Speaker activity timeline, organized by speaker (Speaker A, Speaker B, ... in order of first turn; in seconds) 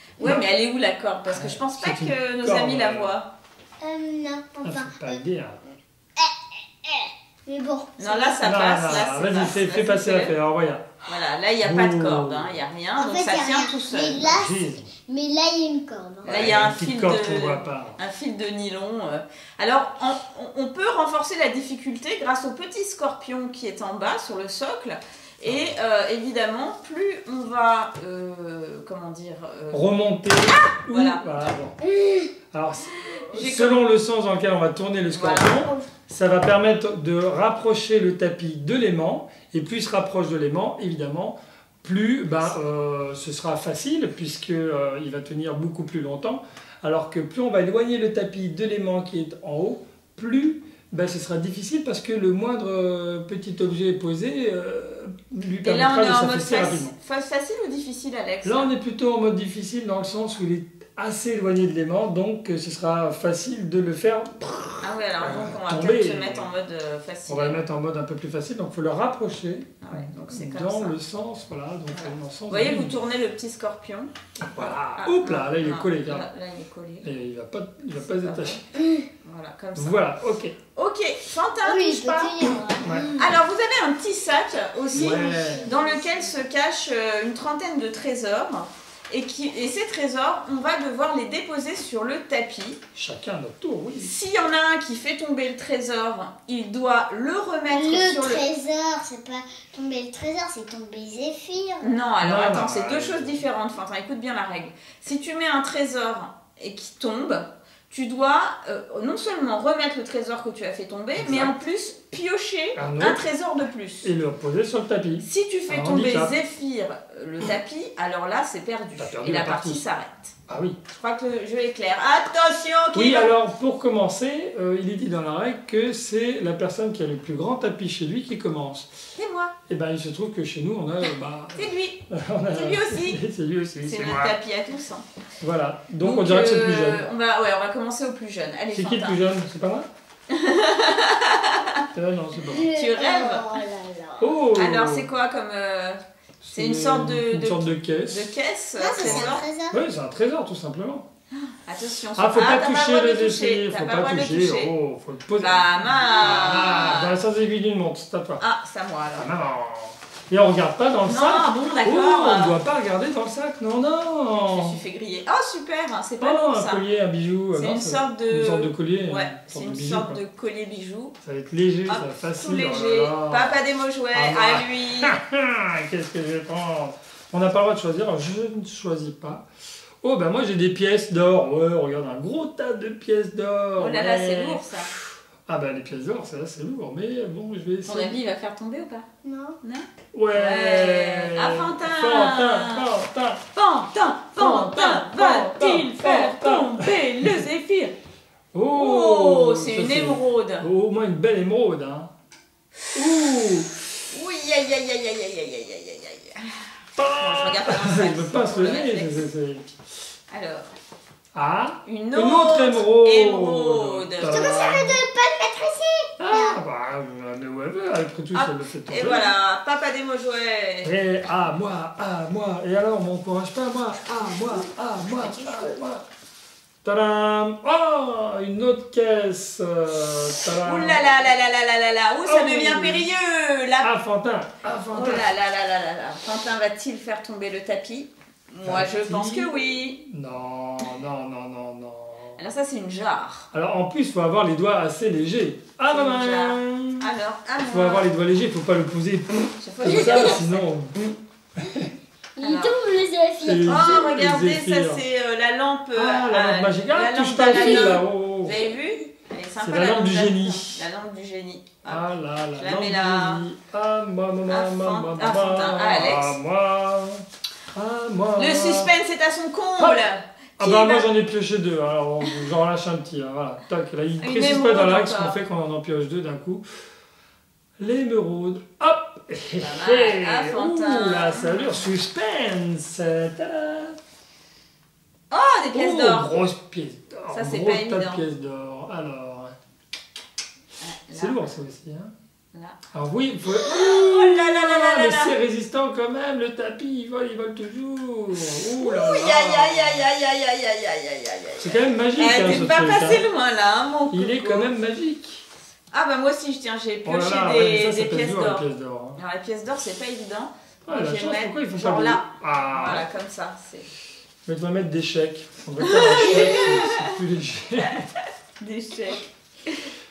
Speaker A: 0.2-3.3, 8.0-10.3, 11.1-14.3, 16.2-29.9, 30.4-31.5, 33.1-33.8, 35.1-35.8, 55.6-58.7, 64.8-67.6, 69.8-71.0, 71.9-77.1, 78.1-78.6, 79.2-80.0, 80.8-92.8, 94.0-98.5, 101.8-114.1, 115.2-120.3, 120.9-123.3, 129.2-129.5, 131.6-133.2, 133.8-135.0, 136.0-139.2, 140.3-141.8, 142.7-143.6, 144.5-146.0, 146.5-149.4, 151.4-154.7, 155.4-157.2, 158.4-159.3, 161.1-162.6, 164.5-166.8, 167.5-171.1, 171.9-175.2, 183.8-184.9, 187.8-189.1, 189.6-192.9, 193.5-197.9, 198.7-200.7, 204.1-209.3, 210.3-210.7, 211.8-214.8, 218.3-220.9, 230.6-233.9, 234.9-240.0, 242.4-243.5, 245.9-248.1, 249.6-250.7, 252.4-252.7, 253.7-263.5, 264.5-266.4, 268.4-271.1, 274.2-275.4, 279.6-281.9, 285.3-286.4, 287.3-288.2, 290.8-291.4, 292.5-292.8, 293.5-295.3, 298.4-304.7, 305.9-308.6, 309.2-313.9, 315.8-317.1, 318.6-319.9
Speaker B: 1.3-3.1, 4.6-5.7, 8.4-10.9, 11.6-12.6, 14.2-14.9, 16.2-18.0, 25.4-25.8, 29.7-31.8, 32.5-56.9, 58.4-66.5, 67.3-73.0, 74.5-76.3, 77.0-78.6, 79.8-80.6, 82.8-83.1, 85.0-85.7, 93.0-94.1, 102.2-103.4, 111.2-111.5, 112.8-113.2, 114.0-116.3, 119.0-119.8, 120.5-120.8, 122.9-128.9, 129.7-134.4, 135.4-137.1, 138.7-139.9, 141.9-142.7, 144.2-145.1, 146.4-148.3, 149.0-151.1, 152.2-158.4, 159.2-164.8, 166.2-170.2, 171.2-173.6, 174.1-179.4, 180.0-184.7, 185.5-188.2, 190.1-193.4, 194.4-197.4, 198.5-202.1, 202.9-203.8, 207.0-209.7, 211.3-215.0, 216.2-219.3, 220.8-226.1, 226.8-231.1, 232.2-233.1, 233.8-235.3, 238.6-242.4, 243.5-247.1, 247.7-251.0, 251.6-251.9, 253.4-255.0, 255.9-258.6, 259.6-260.9, 261.9-267.2, 267.7-268.9, 270.6-276.6, 277.8-284.0, 285.7-289.6, 291.1-292.1, 292.9-300.1, 301.6-303.2, 304.1-305.5, 307.1-309.2, 310.9-313.1, 314.5-318.1
Speaker C: 3.8-5.2, 6.8-8.5, 13.0-16.5, 31.8-32.3, 78.8-79.0, 81.6-83.4, 84.9-86.4, 97.7-102.0, 142.4-144.4, 148.8-149.8, 189.2-189.6, 214.2-216.6, 249.9-250.4, 252.4-254.1, 257.5-258.0